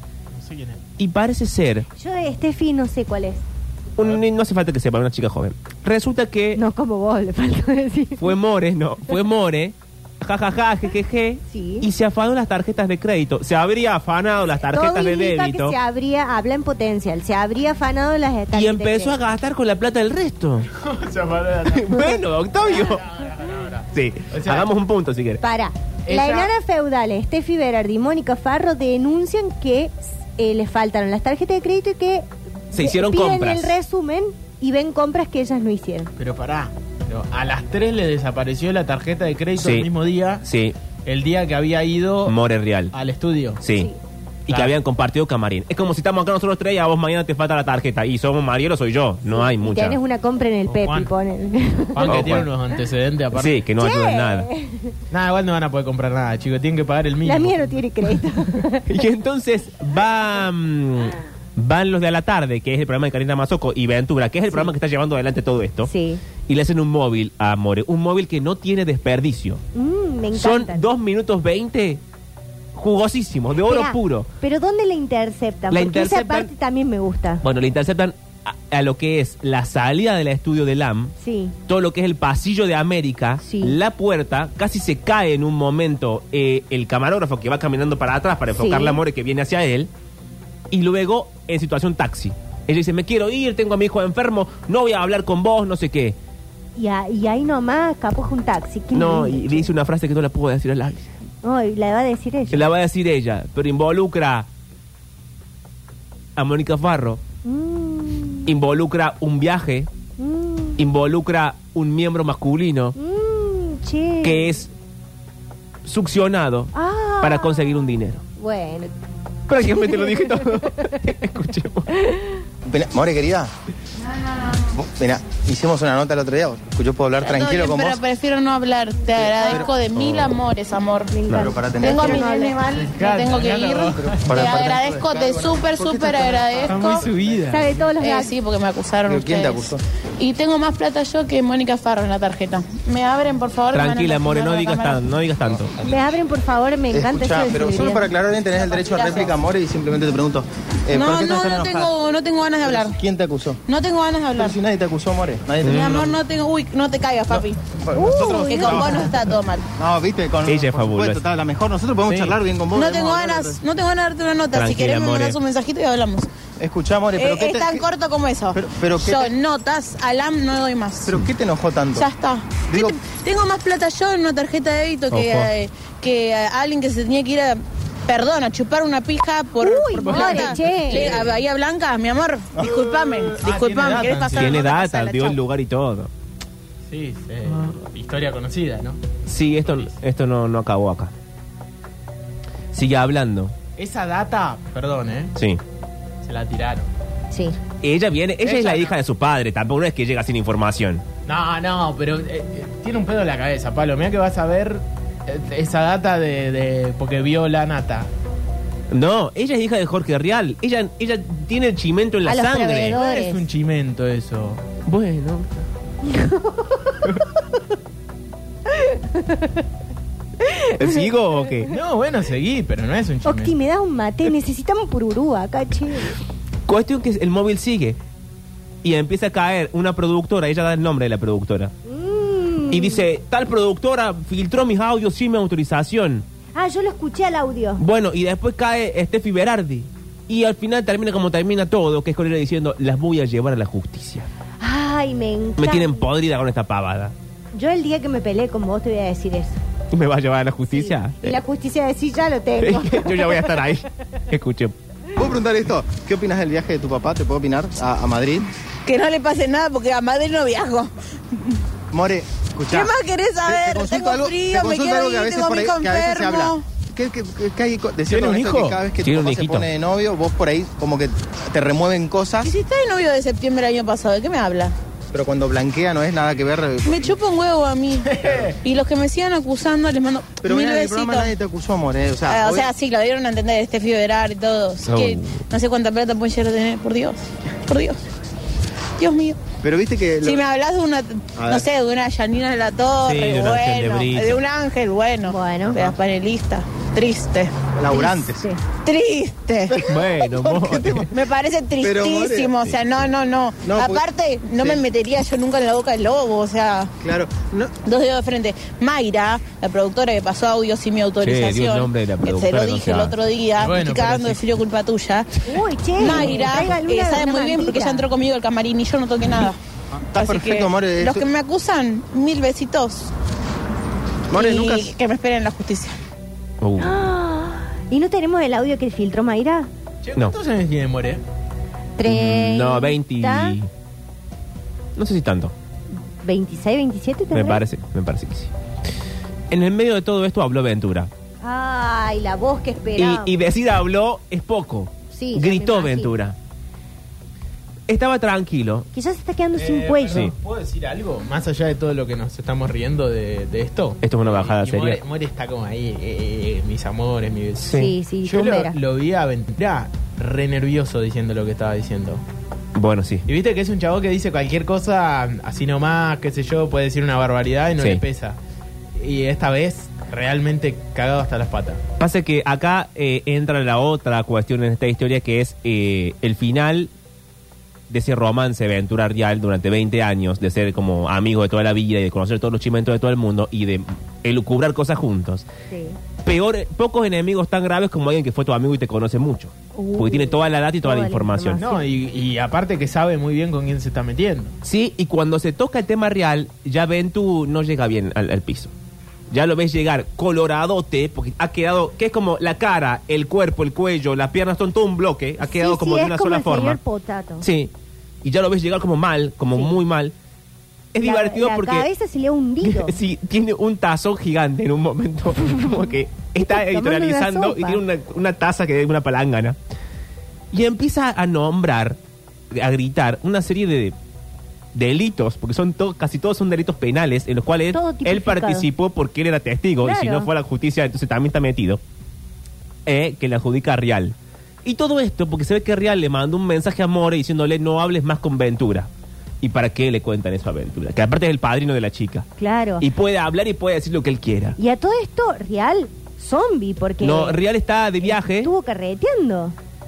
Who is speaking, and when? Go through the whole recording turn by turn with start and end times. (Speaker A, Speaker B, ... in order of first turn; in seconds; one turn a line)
Speaker A: 0.3-0.8
Speaker B: 1.0-1.9
Speaker C: 2.0-3.4
Speaker B: 4.0-6.6
Speaker C: 6.6-8.4
Speaker B: 8.2-15.8
Speaker C: 11.5-11.9
Speaker C: 14.6-19.2
Speaker B: 18.5-20.7
Speaker A: 20.7-24.7
Speaker B: 21.7-23.1
Speaker B: 23.9-25.4
Speaker C: 25.4-36.1
Speaker A: 26.1-26.5
Speaker B: 32.7-33.8
Speaker A: 36.2-40.5
Speaker B: 39.6-39.9
Speaker B: 40.4-40.8
Speaker A: 41.1-42.4
Speaker B: 42.3-42.9
Speaker A: 42.9-43.6
Speaker B: 43.6-43.9
Speaker B: 44.5-50.0
Speaker A: 44.5-44.8
Speaker C: 49.3-52.2
Speaker A: 50.7-51.1
Speaker A: 51.9-53.6
Speaker B: 52.0-52.5
Speaker B: 53.3-54.5
Speaker C: 53.8-54.9
Speaker A: 55.1-58.1
Speaker C: 57.2-59.0
Speaker B: 58.9-65.9
Speaker C: 65.9-66.2
Speaker B: 66.5-69.6
Speaker C: 69.7-70.8
Speaker B: 70.3-72.0
Speaker B: 72.8-74.3
Speaker C: 73.6-77.4
Speaker B: 75.7-76.5
Speaker B: 77.4-81.2
Speaker C: 81.2-81.5
Speaker B: 81.7-89.9
Speaker C: 83.4-83.8
Speaker C: 88.5-89.0
Speaker B: 90.7-96.2
Speaker C: 96.8-99.7
Speaker B: 98.9-101.2
Speaker C: 101.4-102.7
Speaker B: 102.5-104.5
Speaker B: 106.4-107.2
Speaker C: 107.4-108.5
Speaker B: 108.5-109.9
Speaker C: 110.2-110.8
Speaker B: 110.8-113.0
Speaker C: 113.0-114.6
Speaker B: 114.2-114.7
Speaker B: 115.8-118.2
Speaker C: 116.7-117.8
Speaker C: 118.4-118.9
Speaker B: 119.5-121.9
Speaker C: 119.6-121.0
Speaker C: 122.0-122.4
Speaker D: 122.7-123.5
Speaker D: 124.8-128.0
Speaker E: 127.2-131.2
Speaker D: 129.2-129.7
Speaker B: 130.0-130.4
Speaker C: 131.1-132.7
Speaker D: 131.3-132.3
Speaker E: 131.8-137.1
Speaker A: 132.7-134.6
Speaker D: 134.2-137.5
Speaker A: 136.7-137.9
Speaker C: 137.5-138.3
Speaker E: 138.0-145.1
Speaker D: 139.1-139.8
Speaker B: 143.7-145.7
Speaker C: 145.8-148.1
Speaker D: 146.9-151.9
Speaker E: 148.4-149.3
Speaker E: 150.9-153.0
Speaker D: 152.6-153.6
Speaker E: 153.7-154.6
Speaker D: 154.4-156.2
Speaker B: 155.6-156.1
Speaker E: 155.6-159.7
Speaker D: 157.3-159.3
Speaker C: 157.9-159.1
Speaker D: 159.8-163.6
Speaker B: 160.5-161.2
Speaker B: 162.1-162.4
Speaker E: 162.7-166.3
Speaker B: 164.5-165.4
Speaker D: 166.6-167.8
Speaker E: 167.2-171.2
Speaker D: 168.5-169.3
Speaker D: 171.1-172.1
Speaker E: 171.9-185.4
Speaker D: 172.7-173.0
Speaker B: 175.1-175.5
Speaker C: 179.6-181.1
Speaker A: 180.1-181.2
Speaker A: 183.3-184.6
Speaker B: 184.3-186.1
Speaker A: 186.9-189.0
Speaker B: 187.5-187.8
Speaker B: 189.3-191.1
Speaker A: 189.7-189.9
Speaker B: 192.7-193.6
Speaker A: 193.8-195.3
Speaker B: 195.3-195.6
Speaker A: 196.2-196.9
Speaker C: 197.3-197.6
Speaker B: 197.8-201.1
Speaker A: 198.4-198.9
Speaker A: 201.3-208.1
Speaker B: 208.9-213.0
Speaker C: 212.3-213.4
Speaker A: 212.8-214.6
Speaker B: 214.8-215.7
Speaker C: 216.1-217.0
Speaker C: 218.8-219.6
Speaker C: 220.4-221.1
Speaker B: 220.8-221.7
Speaker A: 221.7-223.6
Speaker C: 223.2-226.1
Speaker B: 226.7-228.0
Speaker B: 228.8-231.7
Speaker C: 231.9-233.1
Speaker B: 232.7-236.3
Speaker C: 236.6-237.8
Speaker B: 237.8-244.3
Speaker C: 244.6-246.1
Speaker B: 245.6-247.2
Speaker C: 247.5-249.6
Speaker B: 249.9-251.4
Speaker C: 250.7-253.6
Speaker B: 252.6-254.7
Speaker D: 255.2-258.5
Speaker E: 258.9-260.9
Speaker D: 261.9-272.5
Speaker E: 262.7-266.6
Speaker A: 268.1-268.8
Speaker B: 269.0-269.7
Speaker E: 272.4-274.8
Speaker D: 275.1-277.1
Speaker E: 276.8-281.3
Speaker A: 278.1-278.6
Speaker D: 280.4-282.7
Speaker E: 282.3-288.0
Speaker B: 284.9-285.4
Speaker E: 289.0-289.4
Speaker D: 289.6-290.4
Speaker E: 290.2-298.1
Speaker D: 291.4-291.6
Speaker B: 293.0-294.4
Speaker C: 295.3-295.9
Speaker D: 297.8-298.5
Speaker C: 297.9-298.6
Speaker E: 298.7-299.8
Speaker D: 299.7-301.1
Speaker B: 299.8-301.1
Speaker E: 301.1-306.9
Speaker D: 301.8-302.6
Speaker D: 303.6-304.8
Speaker D: 307.0-307.7
Speaker E: 307.8-315.4
Speaker B: 311.2-313.2
Speaker A: 313.6-314.4
Speaker C: 315.5-318.1
Speaker E: 316.0-319.6
Speaker D: 319.9-321.2
Speaker E: 320.1-323.1
Speaker D: 324.3-324.9
Speaker E: 324.3-326.0
Speaker B: 326.6-327.0
Speaker C: 326.8-329.7
Speaker A: 330.0-331.2
Speaker C: 332.0-333.6
Speaker B: 332.1-333.7
Speaker B: 335.0-335.5
Speaker C: 336.2-337.6
Speaker B: 337.3-338.5
Speaker B: 339.5-341.1
Speaker C: 341.4-343.3
Speaker B: 343.0-346.4
Speaker C: 345.1-346.2
Speaker B: 347.9-348.9
Speaker C: 348.9-350.3
Speaker A: 349.6-362.2
Speaker B: 354.0-355.0
Speaker B: 357.6-357.9
Speaker C: 357.7-358.8
Speaker B: 362.8-363.3
Speaker A: 363.3-368.4
Speaker A: 369.0-371.8
Speaker B: 372.0-376.9
Speaker B: 377.9-385.5
Speaker C: 385.7-386.0
Speaker B: 386.2-391.6
Speaker C: 389.8-391.9
Speaker A: 391.6-394.6
Speaker B: 394.6-398.7
Speaker B: 399.3-406.8
Speaker C: 405.4-407.5
Speaker B: 407.4-407.7
Speaker B: 408.2-410.1
Speaker C: 409.5-409.8
Speaker B: 410.9-411.9
Speaker C: 411.0-413.0
Speaker B: 412.6-419.6
Speaker C: 416.4-417.8
Speaker B: 420.5-422.0
Speaker B: 422.5-423.9
Speaker B: 424.7-431.8
Speaker C: 427.7-428.7
Speaker C: 429.8-430.3
Speaker B: 432.9-438.9
Speaker B: 439.4-442.3
Speaker C: 442.4-442.9
Speaker B: 442.8-444.6
Speaker C: 444.6-447.4
Speaker B: 447.0-448.5
Speaker C: 448.0-449.6